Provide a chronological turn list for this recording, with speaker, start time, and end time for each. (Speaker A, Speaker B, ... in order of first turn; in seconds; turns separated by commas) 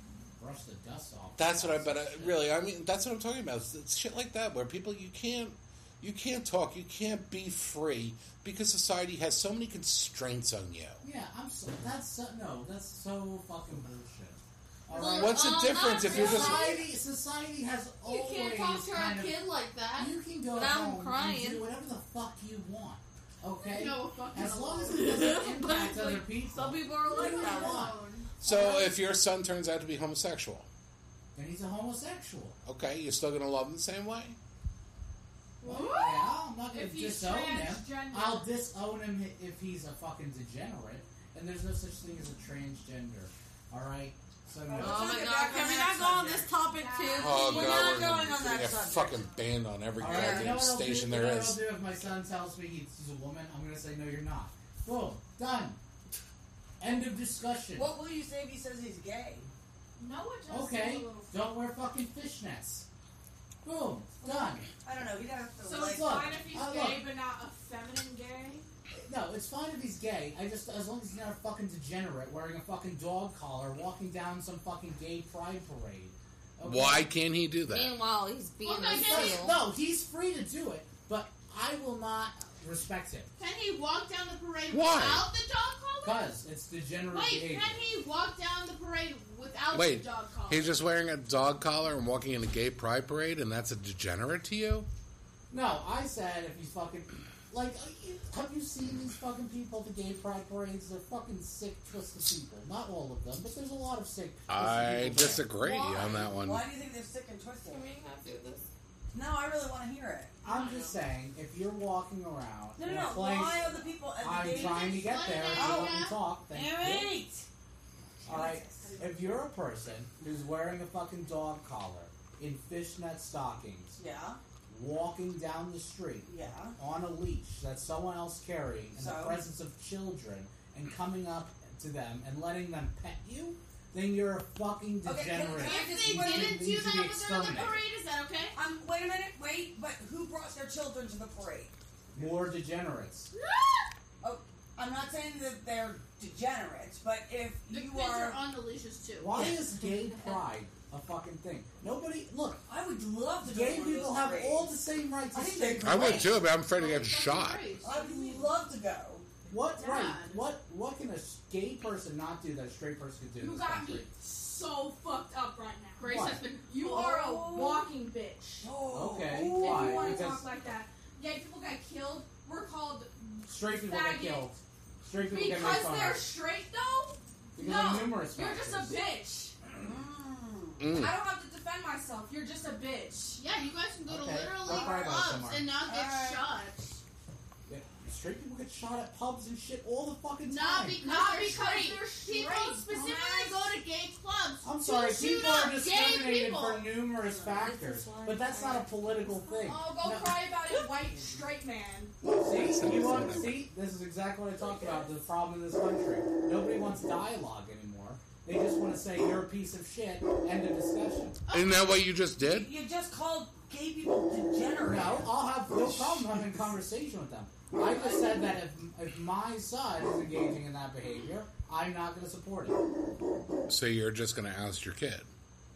Speaker A: 0.4-2.5, Speaker B: 1.4-11.0, Speaker A: 11.0-27.9, Speaker C: 14.9-16.8, Speaker D: 14.9-16.8, Speaker B: 15.1-16.8, Speaker C: 18.0-20.1, Speaker D: 20.5-21.7, Speaker C: 23.6-25.6, Speaker D: 24.9-27.9, Speaker C: 27.0-28.3, Speaker E: 27.1-27.6, Speaker B: 28.4-30.7, Speaker D: 28.4-28.9, Speaker A: 31.3-32.6, Speaker B: 32.6-34.4, Speaker C: 35.6-36.2, Speaker A: 35.6-45.2, Speaker F: 36.7-38.5, Speaker E: 44.6-46.5, Speaker D: 44.7-47.9, Speaker F: 46.6-49.1, Speaker B: 47.2-51.6, Speaker E: 47.3-49.3, Speaker A: 50.0-55.8, Speaker D: 50.0-50.6, Speaker A: 56.8-57.9, Speaker E: 57.7-59.5, Speaker F: 60.0-61.4, Speaker A: 60.5-62.8, Speaker A: 63.6-64.7, Speaker E: 64.2-66.3, Speaker F: 65.6-68.7, Speaker A: 65.7-67.1, Speaker A: 69.0-77.1, Speaker B: 76.6-77.9, Speaker D: 77.7-79.6, Speaker C: 78.6-79.5, Speaker A: 78.9-83.3, Speaker C: 83.4-86.3, Speaker B: 84.7-85.3, Speaker A: 86.0-87.8, Speaker C: 87.1-90.8, Speaker B: 89.7-94.9, Speaker A: 95.5-105.5, Speaker B: 104.5-106.7, Speaker E: 105.5-107.8, Speaker D: 107.7-108.7, Speaker E: 109.1-110.4, Speaker A: 110.4-117.2, Speaker E: 112.8-117.5, Speaker C: 114.5-116.2, Speaker E: 118.2-118.9, Speaker A: 118.2-124.0, Speaker F: 118.8-119.4, Speaker E: 124.0-124.4, Speaker A: 124.7-137.8, Speaker E: 126.2-126.8, Speaker E: 128.9-129.4, Speaker E: 135.0-136.7, Speaker C: 135.5-138.6, Speaker E: 138.5-141.7, Speaker A: 142.1-143.3, Speaker C: 143.3-143.9, Speaker E: 144.2-148.4, Speaker C: 147.7-149.5, Speaker A: 149.2-152.6, Speaker E: 152.7-154.8, Speaker A: 153.4-156.4, Speaker E: 155.3-156.4, Speaker B: 155.8-157.7, Speaker C: 156.6-158.5, Speaker E: 157.8-159.3, Speaker A: 159.4-164.1, Speaker C: 159.7-160.4, Speaker F: 163.4-168.7, Speaker C: 166.0-167.7, Speaker A: 166.1-166.4, Speaker E: 166.8-167.9, Speaker E: 168.6-170.2, Speaker A: 168.9-170.5, Speaker F: 169.5-174.5, Speaker A: 173.4-176.2, Speaker F: 175.2-179.5, Speaker A: 177.6-179.0, Speaker E: 179.8-180.8, Speaker B: 180.8-181.1, Speaker F: 180.9-183.4, Speaker C: 183.4-187.0, Speaker A: 184.1-185.7, Speaker E: 184.7-185.2, Speaker E: 185.8-186.5, Speaker A: 187.7-191.0, Speaker C: 190.4-197.1, Speaker F: 191.0-193.6, Speaker A: 194.6-200.5, Speaker D: 197.4-199.5, Speaker F: 199.5-202.2, Speaker A: 202.4-211.4, Speaker B: 202.4-203.7, Speaker C: 211.5-212.0, Speaker B: 211.5-212.7, Speaker E: 212.4-216.5, Speaker A: 214.8-222.8, Speaker E: 217.8-218.4, Speaker B: 223.7-225.3